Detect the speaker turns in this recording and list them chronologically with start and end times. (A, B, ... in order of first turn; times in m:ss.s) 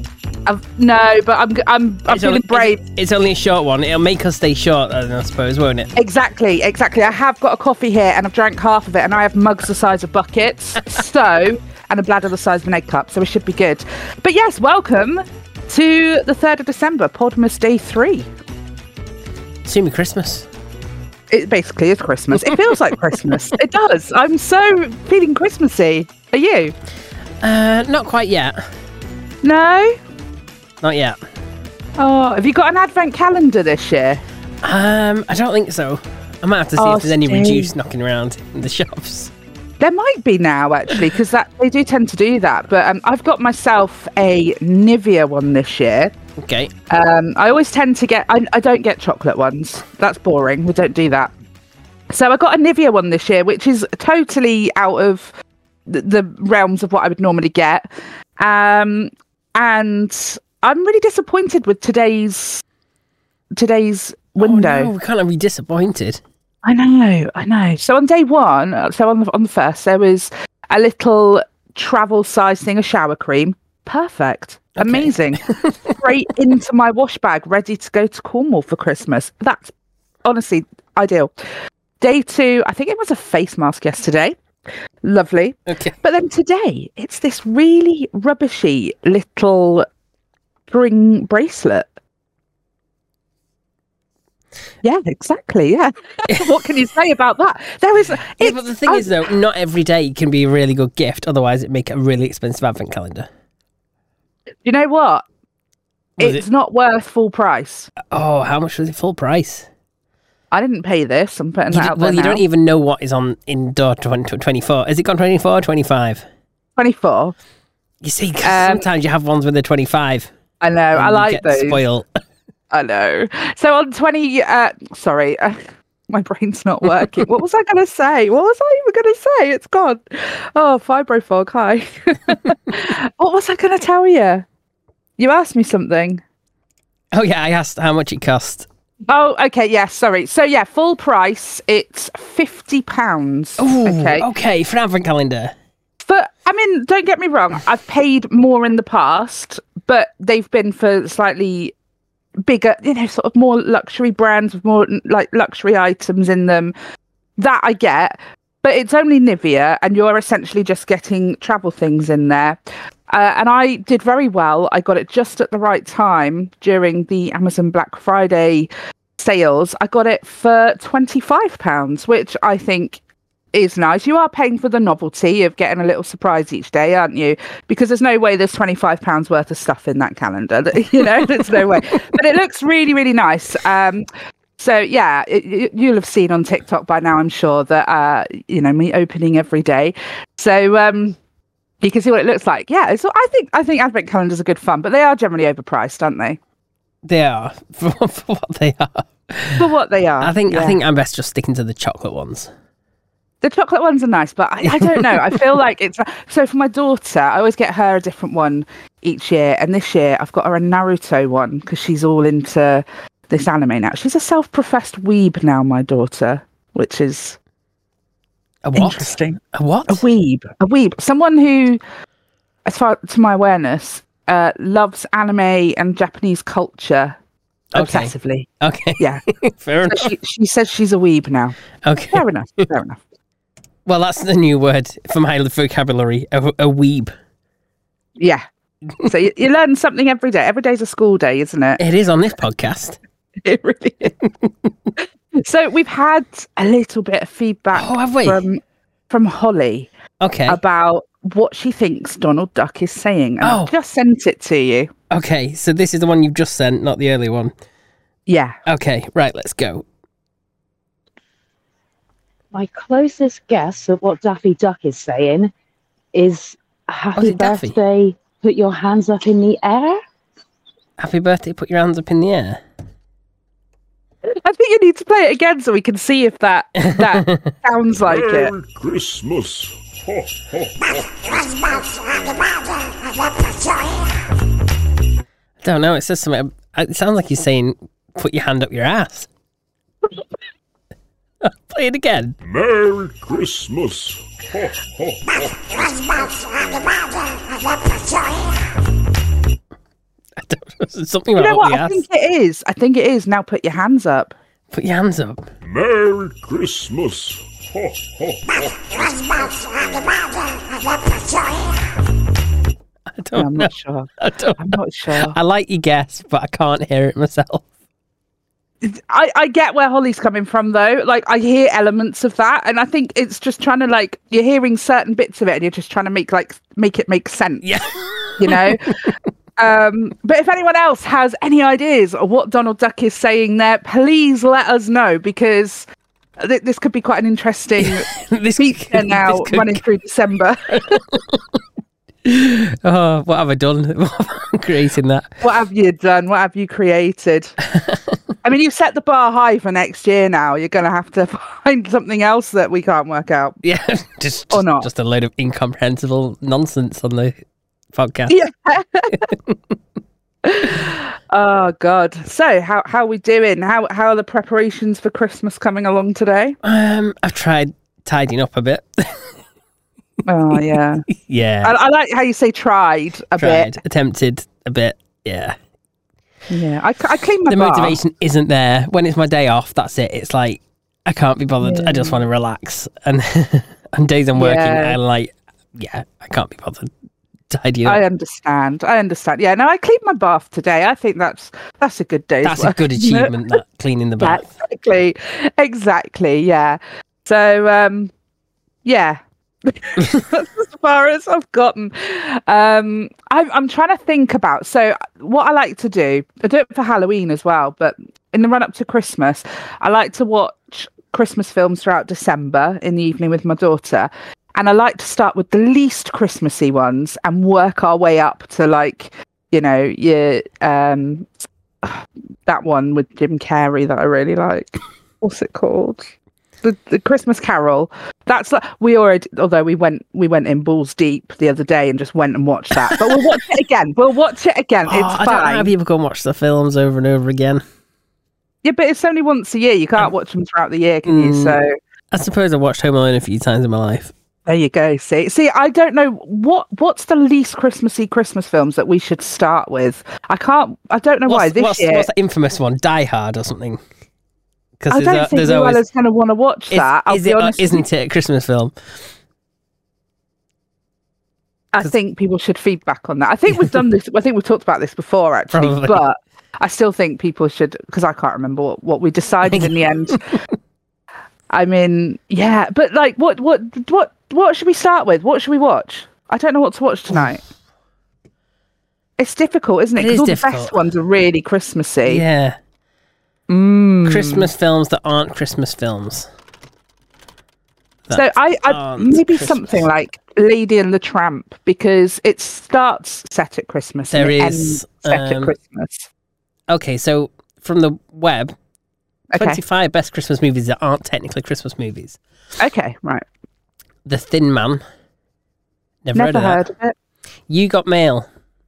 0:00.5-0:02.8 A
0:02.1-0:05.9 B
0:06.0-0:18.3 A
0:19.6-0:20.5 B
0:21.3-0:26.7 A
0:22.3-0:23.5 B
0:27.4-0:28.6 B
0:29.4-0:30.0 A
0:30.8-0:31.2 B
0:32.0-0:34.2 A
0:34.6-0:39.3 B
0:36.8-0:37.7 A
0:39.8-0:46.1 A
0:46.4-0:46.7 B
0:46.9-0:51.3 A
0:52.1-0:55.3 A
0:55.9-1:02.6 A
1:03.6-1:04.9 A
1:04.4-1:06.2 B
1:06.6-1:19.7 A
1:14.8-1:16.0 B
1:20.2-1:21.3 A
1:22.0-1:24.4 A
1:25.0-1:29.9 A
1:25.7-1:26.0 B
1:30.7-1:31.9 A
1:34.8-1:39.2 A
1:36.3-1:36.6 B
1:38.4-1:43.3 B
1:44.6-1:45.2 A
1:46.2-1:47.9 A
1:48.0-1:49.7 B
1:50.5-1:52.4 A
1:51.7-1:56.2 B
1:56.8-1:57.4 A
1:58.0-2:00.3 B
1:58.4-1:58.9 A
2:00.6-2:01.8 A
2:00.9-2:02.1 B
2:02.7-2:14.4 A
2:15.2-2:16.2 A
2:17.1-2:18.7 B
2:19.1-2:24.3 A
2:23.6-2:25.5 B
2:26.0-2:31.7 A
2:32.4-2:36.8 A
2:37.4-2:53.0 A
2:53.5-3:04.1 A
3:00.9-3:02.0 B
3:04.6-3:11.2 A
3:11.8-3:16.4 A
3:17.0-3:19.7 B
3:19.6-3:20.8 A
3:20.2-3:22.5 B
3:23.4-3:37.4 A
3:24.6-3:25.4 B
3:38.6-3:40.0 B
3:38.8-3:41.8 A
3:42.6-3:47.2 A
3:47.7-3:49.2 A
3:47.7-3:50.1 B
3:49.9-3:51.6 A
3:51.8-3:52.2 B
3:52.1-3:53.0 A
3:53.9-3:57.1 B
3:58.2-3:58.4 A
3:59.0-4:01.8 A
4:01.8-4:03.0 B
4:03.4-4:04.1 A
4:04.0-4:04.9 B
4:05.4-4:09.9 A
4:07.7-4:08.4 B
4:10.2-4:10.6 B
4:10.5-4:14.9 A
4:13.4-4:13.7 B
4:15.1-4:17.5 B
4:18.3-4:18.6 A
4:18.7-4:19.8 B
4:22.5-4:25.5 C
4:26.1-4:30.0 C
4:27.2-4:27.8 B
4:31.0-4:32.6 B
4:34.3-4:38.5 A
4:36.9-4:37.5 B
4:38.1-4:42.6 D
4:45.6-4:49.3 B
4:51.4-4:52.4 B
4:52.4-4:56.8 D
5:00.4-5:02.0 B
5:01.4-5:04.3 A
5:04.7-5:05.5 B
5:05.6-5:10.3 D
5:11.1-5:11.8 D
5:13.1-5:17.6 B
5:13.4-5:15.4 A
5:18.8-5:27.8 A
5:27.6-5:29.2 B
5:28.4-5:35.9 A
5:36.4-5:41.0 A
5:37.8-5:39.8 B
5:40.7-5:41.6 B
5:42.2-5:45.4 B
5:45.4-5:47.6 A
5:47.7-5:48.2 B
5:48.4-5:53.6 A
5:53.6-5:57.4 B
5:54.5-5:54.9 A
5:57.9-5:58.4 B
5:58.3-5:59.3 A
5:59.1-5:59.7 B
6:00.4-6:06.6 A
6:06.6-6:09.4 B
6:10.3-6:11.1 A
6:11.1-6:11.7 B
6:11.6-6:13.8 A
6:13.4-6:15.6 B
6:16.5-6:18.0 A
6:17.5-6:26.9 B
6:21.6-6:22.2 A
6:24.4-6:25.0 A
6:27.5-6:28.0 B
6:27.8-6:33.6 A
6:32.4-6:34.5 B
6:34.2-6:38.1 A
6:38.8-7:01.3 A
7:01.8-7:06.1 A
7:06.6-7:15.7 A
7:12.9-7:13.2 B
7:14.9-7:17.6 B
7:18.6-7:21.7 A
7:21.0-7:21.6 B
7:22.1-7:24.1 B
7:24.5-7:32.1 A
7:31.3-7:33.8 B
7:34.8-7:35.8 B
7:34.9-7:37.8 A
7:36.7-7:38.7 B
7:41.7-7:50.4 A
7:45.5-7:46.0 B
7:49.5-7:50.2 B
7:51.5-7:57.4 A
7:59.2-8:02.2 A
8:00.0-8:00.8 B
8:02.0-8:02.6 B
8:03.5-8:04.5 A
8:04.0-8:06.3 B
8:08.1-8:09.9 B
8:08.1-8:16.1 A
8:14.1-8:15.5 B
8:16.7-8:18.6 B
8:19.3-8:19.6 A
8:19.3-8:22.2 B
8:22.6-8:23.2 A
8:24.0-8:24.8 B
8:26.0-8:26.6 B
8:26.2-8:27.0 A
8:27.5-8:28.3 B